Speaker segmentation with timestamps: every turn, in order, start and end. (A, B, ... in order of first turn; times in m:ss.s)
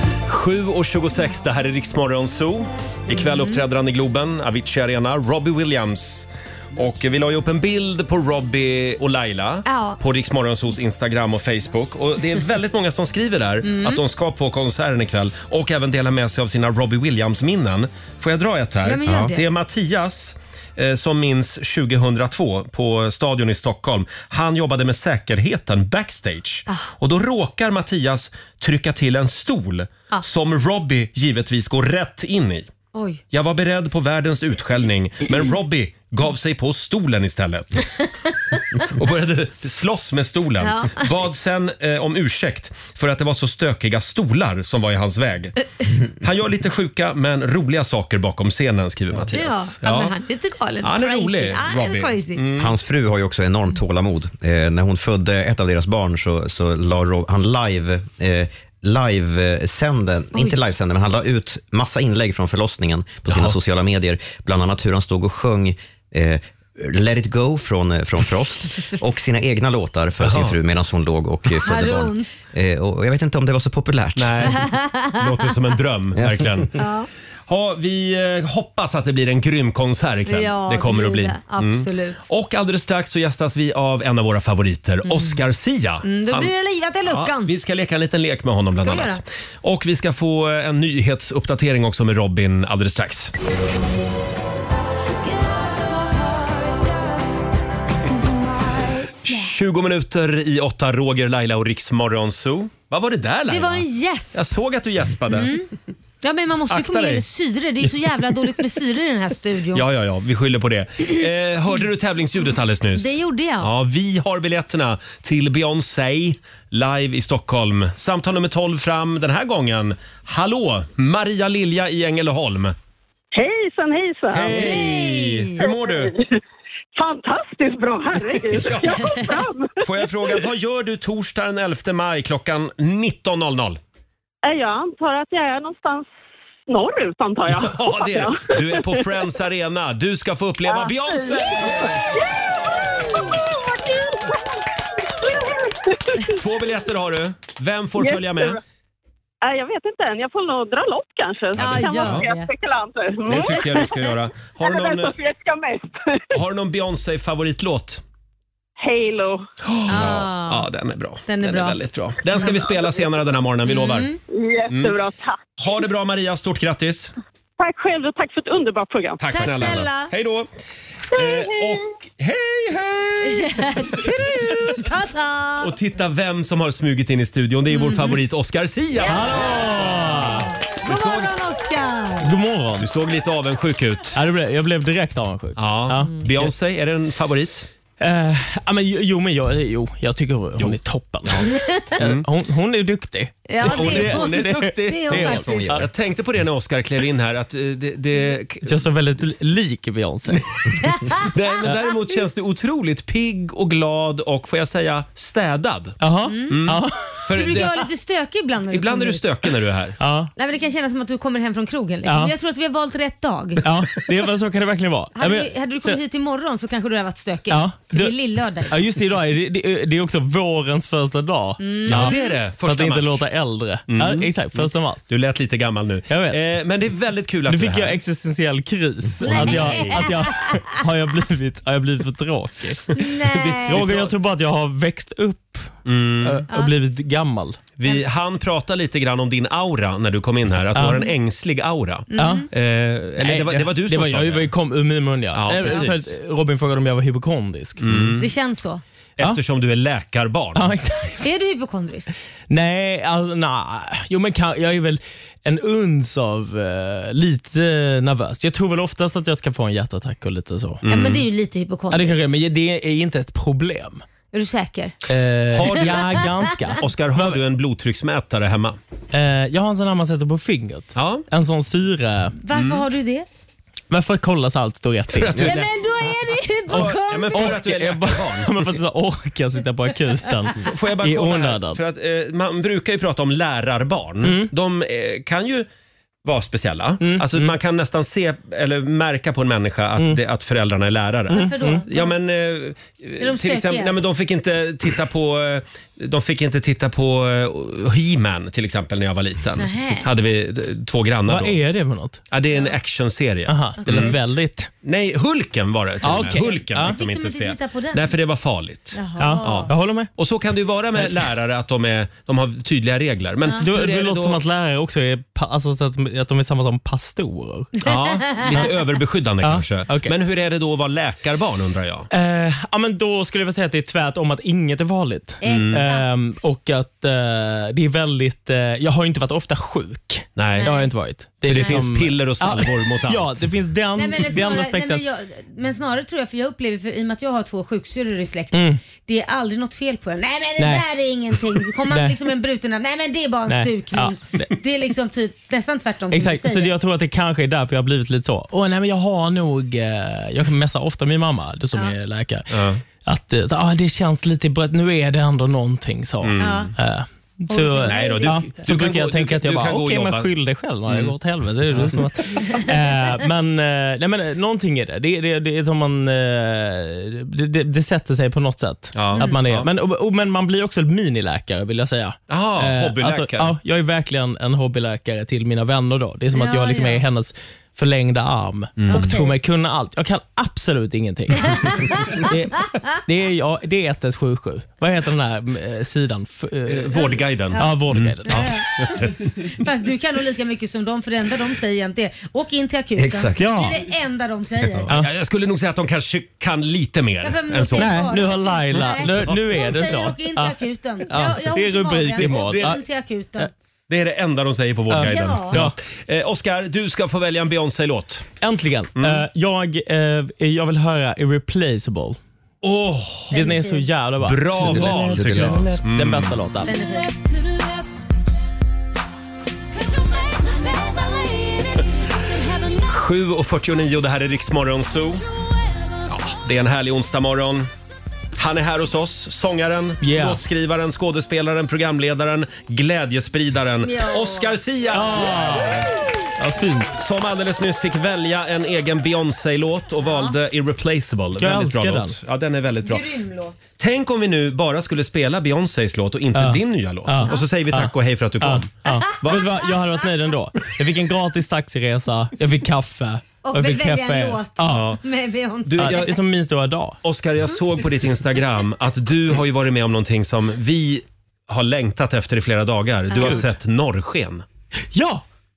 0:00.3-0:32.7 A
0:03.1-0:03.6 B
0:09.6-0:10.0 B
0:13.6-0:14.0 B
0:18.8-0:19.4 B
0:32.9-0:33.2 B
0:33.3-0:37.9 A
0:38.5-0:38.8 B
0:38.8-0:45.6 A
0:40.6-0:41.1 B
0:46.2-0:50.1 A
0:49.3-0:52.4 B
0:50.8-0:52.7 A
0:52.6-1:14.5 C
1:03.3-1:03.6 A
1:10.2-1:10.6 A
1:11.6-1:12.3 B
1:14.2-1:16.8 A
1:14.5-1:15.2 B
1:16.2-1:16.6 C
1:16.8-1:17.1 B
1:17.5-1:26.5 A
1:20.3-1:22.2 B
1:25.1-1:25.4 B
1:26.0-1:27.5 B
1:27.0-1:33.3 A
1:28.8-1:29.2 B
1:35.3-1:37.2 D
1:38.2-1:38.8 D
1:39.2-1:45.5 A
1:43.5-1:44.4 B
1:45.3-1:45.7 B
1:46.2-1:49.8 B
1:46.7-1:47.2 A
1:49.7-2:02.8 A
1:53.0-1:53.7 B
2:03.3-2:04.9 E
2:04.3-2:06.1 A
2:04.5-2:05.6 B
2:05.6-2:06.3 E
2:07.0-2:10.4 E
2:08.5-2:09.2 A
2:08.9-2:09.3 B
2:09.8-2:13.8 A
2:14.4-2:16.1 E
2:16.7-2:19.1 E
2:17.5-2:22.0 A
2:20.7-2:26.4 E
2:26.3-2:28.6 A
2:28.0-2:28.6 E
2:29.4-2:34.0 E
2:31.6-2:32.5 B
2:31.6-2:32.3 A
2:33.3-2:35.1 A
2:34.6-2:36.4 E
2:36.3-2:38.0 A
2:38.8-2:39.4 E
2:39.6-2:44.1 A
2:39.9-2:40.6 B
2:41.3-2:41.8 B
2:42.3-2:42.6 B
2:43.7-2:44.2 B
2:44.3-2:45.7 E
2:44.7-2:45.0 A
2:45.6-2:47.1 A
2:47.6-2:49.5 E
2:49.2-2:50.5 A
2:49.3-2:50.1 B
2:51.1-2:54.1 A
2:51.2-2:51.8 E
2:53.2-2:55.7 B
2:55.6-3:01.3 A
2:57.7-2:58.2 B
2:59.0-3:02.3 B
2:59.0-3:00.5 F
3:02.2-3:02.9 F
3:02.8-3:04.2 A
3:04.1-3:06.5 F
3:05.6-3:07.7 A
3:08.0-3:15.9 F
3:10.6-3:12.3 A
3:11.4-3:11.9 B
3:13.5-3:15.9 B
3:13.6-3:18.8 A
3:18.6-3:20.4 F
3:20.9-3:21.2 B
3:21.2-3:26.0 A
3:26.0-3:27.2 F
3:26.3-3:29.2 B
3:26.5-3:27.9 A
3:28.7-3:30.0 A
3:30.0-3:30.3 F
3:30.4-3:33.6 B
3:32.0-3:32.3 F
3:33.6-3:36.0 F
3:35.2-3:38.8 B
3:37.5-3:38.2 F
3:38.7-3:45.1 F
3:41.6-3:42.4 B
3:41.9-3:43.3 A
3:43.9-3:48.0 A
3:46.1-3:46.4 F
3:47.5-3:52.9 F
3:49.2-3:50.1 A
3:49.2-3:50.7 B
3:53.0-3:53.8 B
3:53.3-3:54.1 A
3:53.6-3:57.6 F
3:55.9-3:56.4 A
3:57.8-4:04.5 A
4:00.7-4:01.1 F
4:02.1-4:02.5 B
4:02.2-4:02.5 F
4:03.2-4:08.1 F
4:05.3-4:06.1 A
4:05.6-4:05.9 B
4:07.8-4:08.3 A
4:08.2-4:08.8 B
4:09.2-4:10.8 A
4:10.6-4:11.2 F
4:11.2-4:12.1 B
4:12.5-4:20.8 F
4:20.8-4:21.3 A
4:20.9-4:22.2 B
4:21.9-4:24.0 F
4:24.3-4:25.0 B
4:25.1-4:27.4 F
4:25.5-4:28.8 A
4:29.1-4:32.4 F
4:31.0-4:31.2 A
4:32.4-4:33.3 B
4:32.5-4:32.8 A
4:33.9-4:35.6 F
4:35.1-4:35.7 A
4:35.4-4:37.6 B
4:36.7-4:38.8 A
4:36.7-4:41.8 F
4:40.6-4:45.7 A
4:44.2-4:44.5 F
4:46.2-5:01.6 A
4:47.0-4:47.6 F
4:51.3-4:51.8 F
4:51.3-4:52.1 B
4:53.2-4:54.0 B
4:59.6-5:00.1 B
5:01.3-5:02.2 F
5:02.3-5:04.2 A
5:03.5-5:04.7 F
5:03.8-5:04.2 B
5:04.8-5:14.4 A
5:06.0-5:07.0 F
5:06.1-5:08.1 B
5:08.9-5:09.7 B
5:09.2-5:10.1 F
5:11.0-5:11.3 F
5:13.6-5:17.7 F
5:17.8-5:22.1 A
5:17.9-5:18.7 B
5:19.4-5:20.2 F
5:22.1-5:35.0 F
5:25.4-5:26.1 B
5:25.5-5:25.8 A
5:30.4-5:30.8 A
5:30.6-5:30.9 B
5:31.4-5:33.5 A
5:34.0-5:46.7 B
5:38.5-5:38.8 F
5:40.6-5:40.9 F
5:41.9-5:42.2 F
5:43.5-5:44.5 F
5:46.1-5:52.5 F
5:52.5-5:52.8 A
5:53.0-6:28.5 F
5:56.2-5:56.8 A
5:56.4-5:56.7 B
5:57.5-5:58.7 B
5:57.8-6:00.3 A
6:00.9-6:01.2 A
6:01.7-6:02.0 A
6:09.0-6:09.7 A
6:09.2-6:09.4 B
6:12.3-6:13.6 A
6:16.3-6:17.0 B
6:18.8-6:19.2 A
6:18.9-6:19.4 B
6:21.6-6:22.3 B
6:26.7-6:29.3 A
6:27.0-6:34.9 B
6:33.0-6:33.4 C
6:33.4-6:33.8 F
6:34.8-6:38.2 A
6:37.2-6:43.5 B
6:37.8-6:42.8 F
6:38.8-6:39.5 A
6:42.2-6:42.8 A
6:43.9-6:48.3 A
6:44.9-6:45.8 F
6:45.0-6:45.6 B
6:48.4-6:52.2 F
6:49.0-6:49.2 A
6:52.6-6:53.4 A
6:53.3-6:53.9 B
6:53.3-6:56.8 F
6:54.2-6:56.4 A
6:54.7-6:55.8 C
6:56.6-6:57.1 B
6:57.0-6:57.8 D
6:59.8-7:02.8 D
7:02.8-7:05.2 A
7:05.4-7:05.9 D
7:06.1-7:07.7 A
7:08.4-7:15.9 A
7:10.0-7:10.4 F
7:13.8-7:14.5 B
7:14.9-7:17.0 F
7:17.0-7:23.0 A
7:20.0-7:20.3 B
7:21.4-7:22.2 F
7:22.8-7:23.6 B
7:23.8-7:29.6 A
7:26.3-7:35.0 F
7:33.4-7:36.2 B
7:34.7-7:35.0 A
7:35.7-7:36.2 A
7:35.8-7:37.0 F
7:37.0-7:44.4 A
7:43.1-7:43.4 B
7:43.2-7:43.5 F
7:44.9-7:45.2 F